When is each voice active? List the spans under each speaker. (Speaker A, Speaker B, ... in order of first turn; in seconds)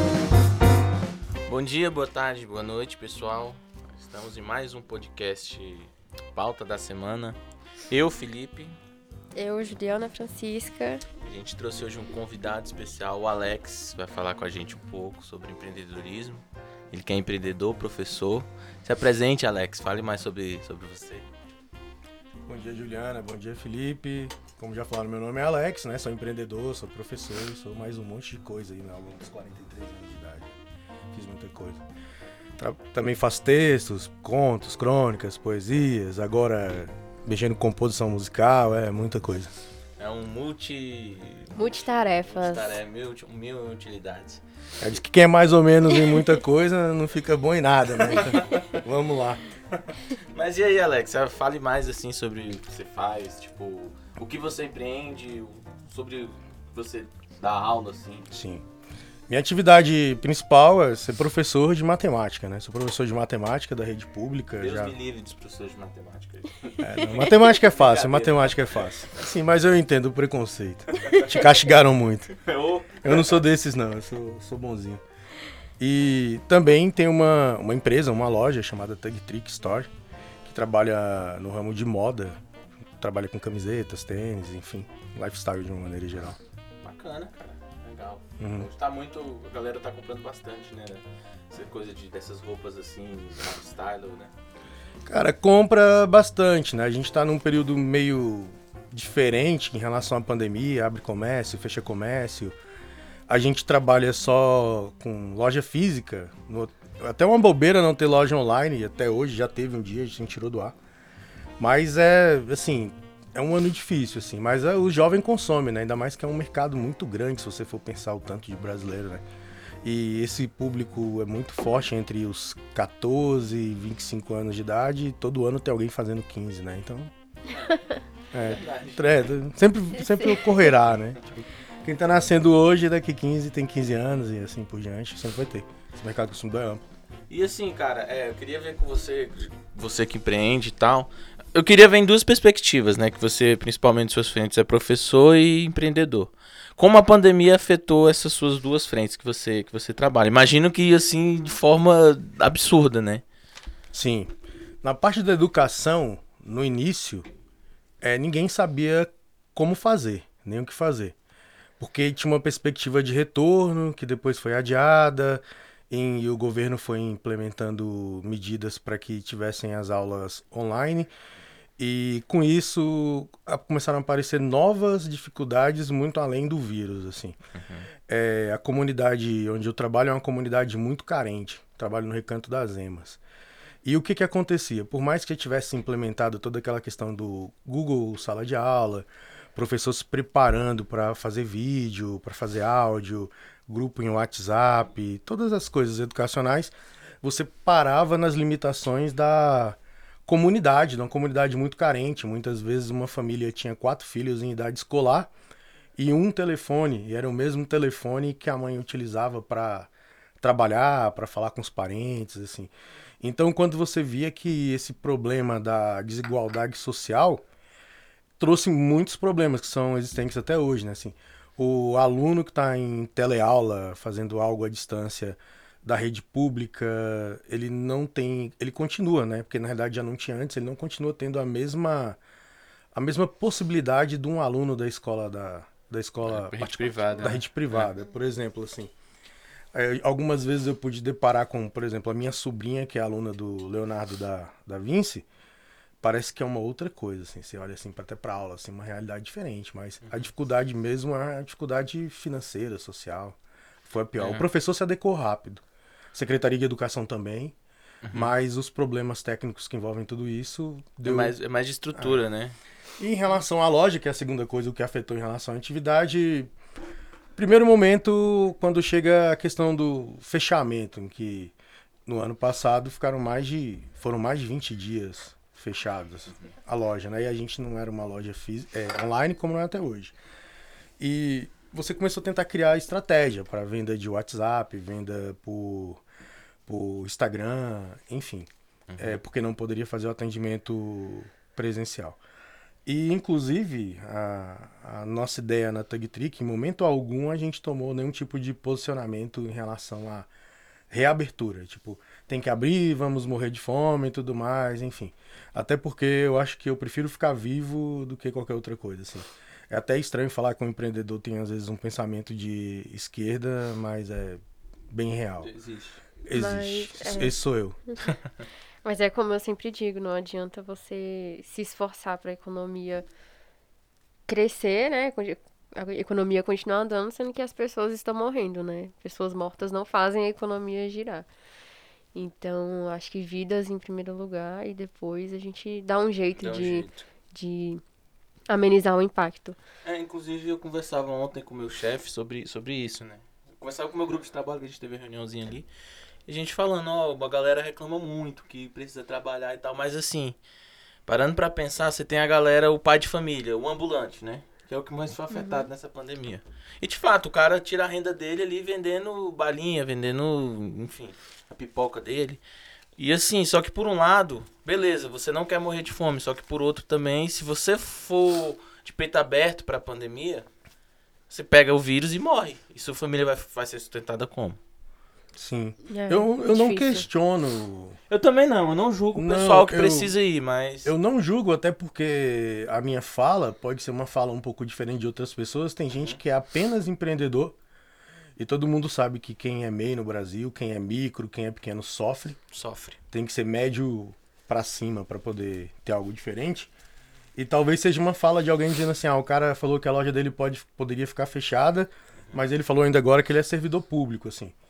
Speaker A: 1.5-7.4, 7.9-8.7, 11.2-21.3, 40.0-44.4, 48.1-48.8, 50.1-58.3, 64.6-68.8, 71.0-71.4, 72.4-73.4, 86.8-94.3, 128.3-129.3, 137.3-153.2, 177.6-177.9, 236.2-237.8, 254.2-254.4, 258.0-258.3, 261.0-262.6, 288.9-289.2, 315.4-316.0, 336.4-337.0, 339.8-345.7, 346.3-350.4, 351.1-362.4, 363.0-370.5, 371.3-374.6, 378.1-380.9, 392.5-393.0
Speaker B: 9.3-11.0, 41.5-42.7, 316.3-317.3, 318.8-323.0, 324.3-331.3, 332.1-337.8, 338.5-339.6, 355.3-355.7, 375.9-377.1
Speaker C: 22.4-30.5, 31.1-31.8, 32.6-39.5, 44.8-49.4, 58.3-58.6, 59.3-64.9, 66.8-72.4, 73.0-75.0, 75.8-79.9, 80.4-82.4, 83.0-86.4, 88.4-88.7, 95.0-102.5, 103.3-110.7, 111.6-119.2, 119.8-127.1, 128.3-136.8, 153.9-157.3, 158.0-161.1, 161.8-171.1, 171.8-177.3, 178.1-183.2, 183.8-205.3, 206.0-217.4, 218.4-232.2, 232.9-238.9, 239.7-245.2, 246.0-255.6, 256.1-257.5, 258.1-261.3, 261.9-262.2, 263.0-266.5, 267.4-271.5, 272.1-280.1, 281.0-286.0, 286.6-292.2, 292.9-300.3, 300.9-315.5, 316.2-317.8, 375.4-378.0, 379.1-380.1, 380.8-387.5, 388.4-392.4, 393.1-396.7, 397.4-404.5